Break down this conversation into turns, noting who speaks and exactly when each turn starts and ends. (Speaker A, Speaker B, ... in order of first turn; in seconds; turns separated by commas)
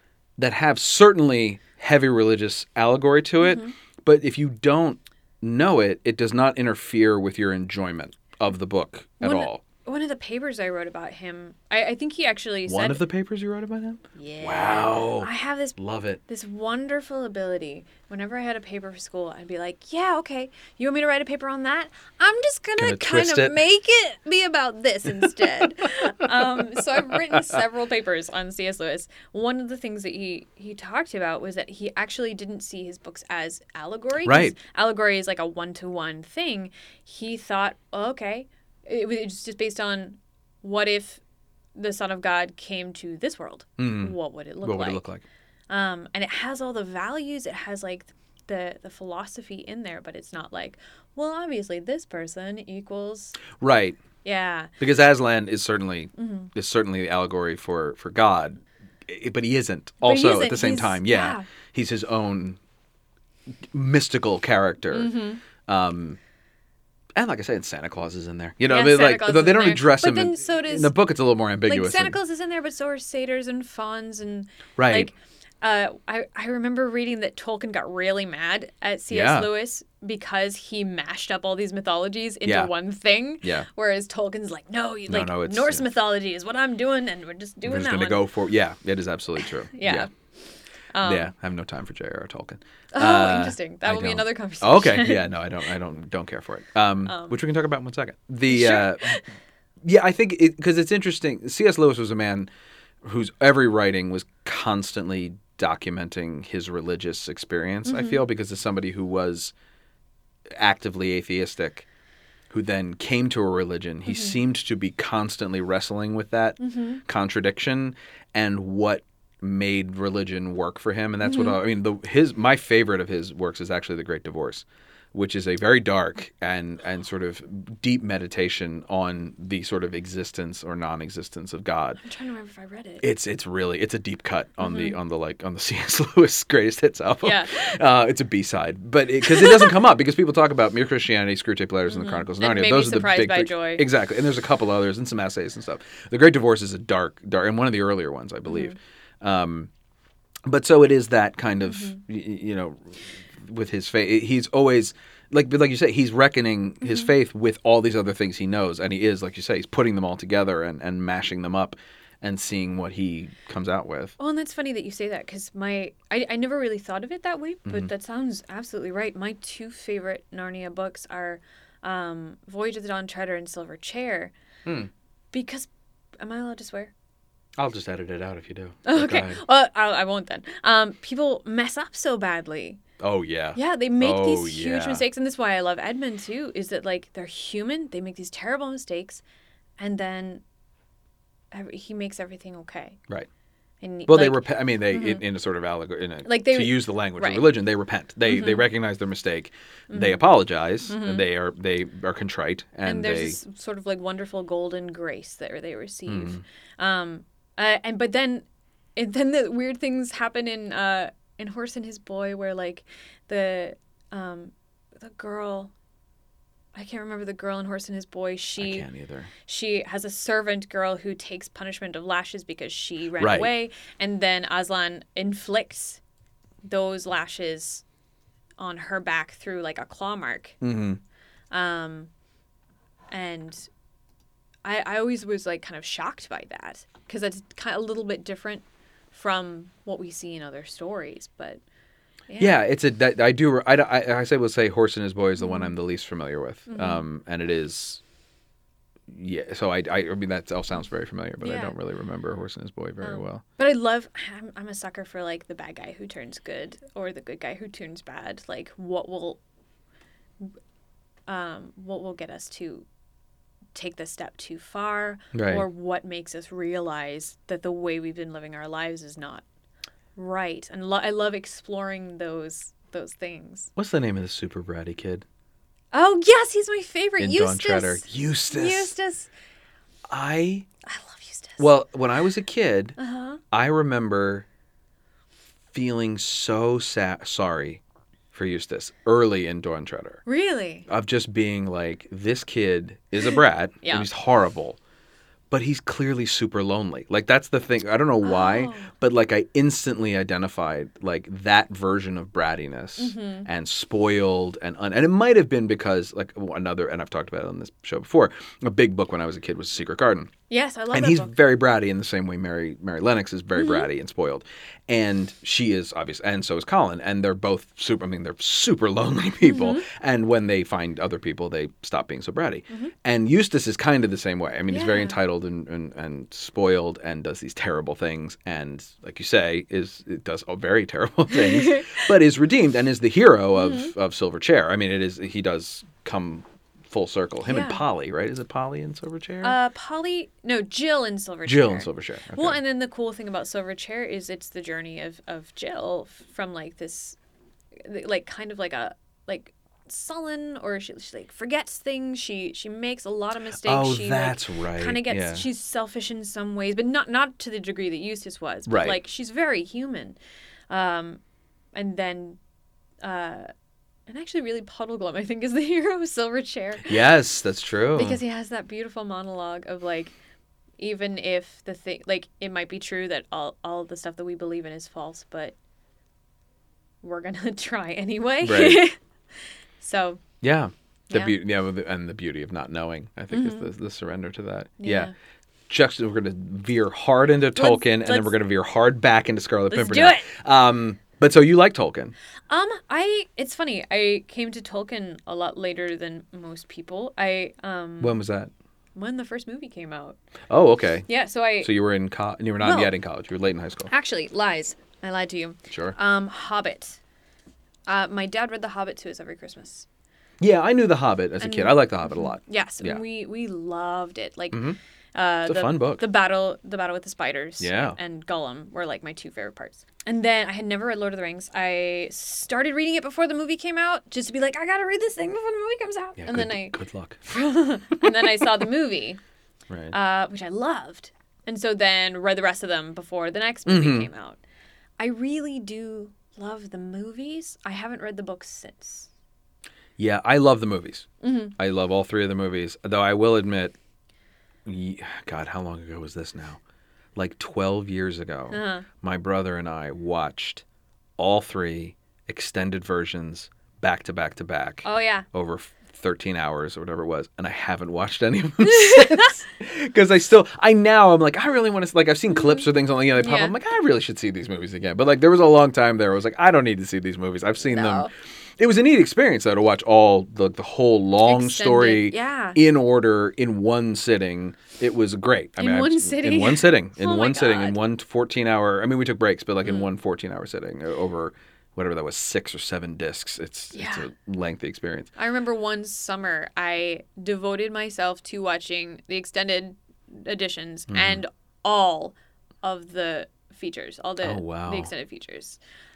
Speaker A: 0.4-9.6, Speaker B: 3.4-3.7, Speaker B: 9.2-13.0, Speaker A: 12.7-16.2, Speaker B: 14.2-15.8, Speaker B: 16.3-41.2, Speaker A: 22.8-23.6, Speaker A: 26.9-27.4, Speaker A: 34.2-34.6, Speaker B: 41.8-45.1, Speaker A: 43.8-45.2, Speaker B: 45.7-53.4, Speaker A: 53.6-54.0, Speaker B: 54.2-54.7, Speaker A: 54.8-62.6, Speaker B: 56.2-56.5, Speaker B: 60.0-61.5, Speaker A: 63.7-65.1, Speaker B: 64.9-65.4, Speaker A: 65.6-66.2, Speaker A: 67.2-72.2, Speaker B: 68.7-71.0, Speaker B: 71.7-88.2, Speaker A: 74.8-75.1, Speaker A: 79.1-79.5, Speaker A: 82.5-82.7, Speaker A: 85.1-85.9, Speaker A: 87.7-90.1, Speaker B: 89.4-90.1, Speaker B: 90.9-91.3, Speaker A: 91.0-99.2, Speaker B: 92.9-95.3, Speaker B: 97.0-97.4, Speaker B: 98.5-99.2, Speaker A: 99.8-102.5, Speaker A: 103.0-109.5, Speaker B: 107.8-108.2, Speaker A: 110.5-111.9, Speaker A: 112.5-132.0, Speaker B: 114.1-114.4, Speaker B: 116.6-117.0, Speaker B: 121.2-121.6, Speaker B: 132.0-133.1, Speaker A: 133.0-149.7, Speaker B: 134.6-135.0, Speaker B: 137.2-137.6, Speaker B: 139.3-139.7, Speaker B: 141.9-143.9, Speaker B: 148.5-148.8, Speaker A: 150.5-164.2, Speaker B: 151.7-152.0, Speaker B: 164.2-174.3, Speaker A: 174.7-174.9, Speaker B: 175.3-175.7, Speaker B: 176.2-176.9, Speaker A: 177.6-179.4, Speaker B: 178.8-182.8, Speaker A: 183.0-185.1, Speaker B: 183.6-189.2, Speaker B: 189.8-190.4, Speaker B: 191.5-193.0, Speaker B: 193.8-195.2, Speaker A: 194.1-203.4, Speaker B: 196.2-197.5, Speaker B: 198.3-198.7, Speaker B: 199.9-200.3, Speaker B: 200.9-201.2, Speaker B: 202.8-215.7, Speaker A: 206.1-206.4, Speaker B: 216.8-218.9, Speaker A: 218.6-219.3, Speaker B: 219.4-226.0, Speaker A: 223.2-223.5, Speaker B: 226.7-227.8, Speaker B: 228.6-230.6, Speaker A: 230.6-231.0, Speaker B: 231.5-232.1, Speaker B: 233.1-233.7, Speaker B: 234.6-241.6, Speaker B: 242.3-242.6, Speaker A: 242.4-248.0, Speaker B: 245.4-245.7, Speaker B: 246.7-247.0, Speaker A: 249.1-253.4, Speaker B: 251.4-251.7, Speaker B: 253.0-259.4, Speaker B: 261.3-262.9, Speaker B: 263.7-269.4, Speaker A: 265.3-265.7, Speaker B: 270.2-273.7, Speaker A: 273.8-275.2, Speaker B: 275.9-279.3, Speaker A: 277.2-278.9, Speaker A: 280.1-280.7, Speaker B: 280.9-281.6, Speaker A: 281.6-283.0, Speaker B: 283.0-283.4, Speaker A: 283.5-284.4, Speaker A: 285.7-287.8, Speaker A: 288.3-290.2, Speaker B: 290.3-290.9, Speaker A: 290.9-294.8, Speaker B: 293.8-294.1, Speaker A: 295.5-310.3, Speaker B: 298.2-298.9, Speaker B: 303.0-303.5, Speaker B: 310.5-311.4, Speaker A: 310.9-339.6, Speaker B: 313.6-313.9, Speaker B: 319.4-319.9, Speaker B: 324.7-325.2, Speaker B: 331.3-332.0, Speaker B: 333.6-333.9, Speaker B: 337.4-337.8, Speaker B: 339.4-347.2, Speaker A: 341.4-342.6, Speaker B: 347.8-360.2, Speaker A: 353.6-355.5, Speaker A: 358.7-359.0, Speaker B: 360.7-361.2, Speaker B: 361.8-362.4, Speaker B: 363.0-363.5, Speaker B: 364.1-367.1, Speaker A: 366.8-368.2, Speaker B: 367.9-370.1, Speaker B: 370.8-375.6, Speaker B: 377.0-379.0, Speaker A: 378.4-378.9, Speaker B: 379.8-380.2, Speaker A: 380.4-385.1, Speaker B: 381.1-381.4, Speaker B: 383.3-383.7, Speaker B: 384.8-385.1, Speaker A: 385.7-392.1, Speaker B: 387.6-388.4, Speaker B: 389.7-390.3, Speaker B: 392.5-398.2, Speaker A: 398.0-398.5, Speaker B: 399.0-400.2, Speaker A: 400.5-401.1, Speaker B: 401.1-401.7, Speaker A: 401.6-403.9, Speaker B: 402.6-402.9, Speaker B: 403.9-407.0, Speaker A: 405.7-406.0, Speaker B: 407.9-409.9, Speaker A: 410.4-413.0, Speaker B: 411.4-429.2, Speaker A: 414.5-414.8, Speaker A: 415.5-416.1, Speaker A: 417.6-418.0, Speaker A: 426.2-427.2, Speaker A: 428.0-428.3, Speaker A: 429.7-430.0, Speaker B: 429.9-434.4, Speaker A: 433.7-434.1, Speaker B: 435.0-439.1, Speaker A: 440.0-443.8, Speaker B: 441.2-441.6, Speaker A: 444.6-446.6, Speaker A: 447.1-450.6, Speaker B: 448.5-448.9, Speaker A: 451.2-485.1, Speaker B: 454.8-455.2, Speaker B: 458.6-459.4, Speaker B: 462.3-463.5, Speaker B: 467.6-468.1, Speaker B: 471.2-472.6, Speaker B: 475.6-477.8, Speaker B: 479.6-479.9, Speaker B: 483.7-484.1, Speaker B: 485.2-495.6, Speaker A: 490.9-491.2, Speaker A: 494.2-494.9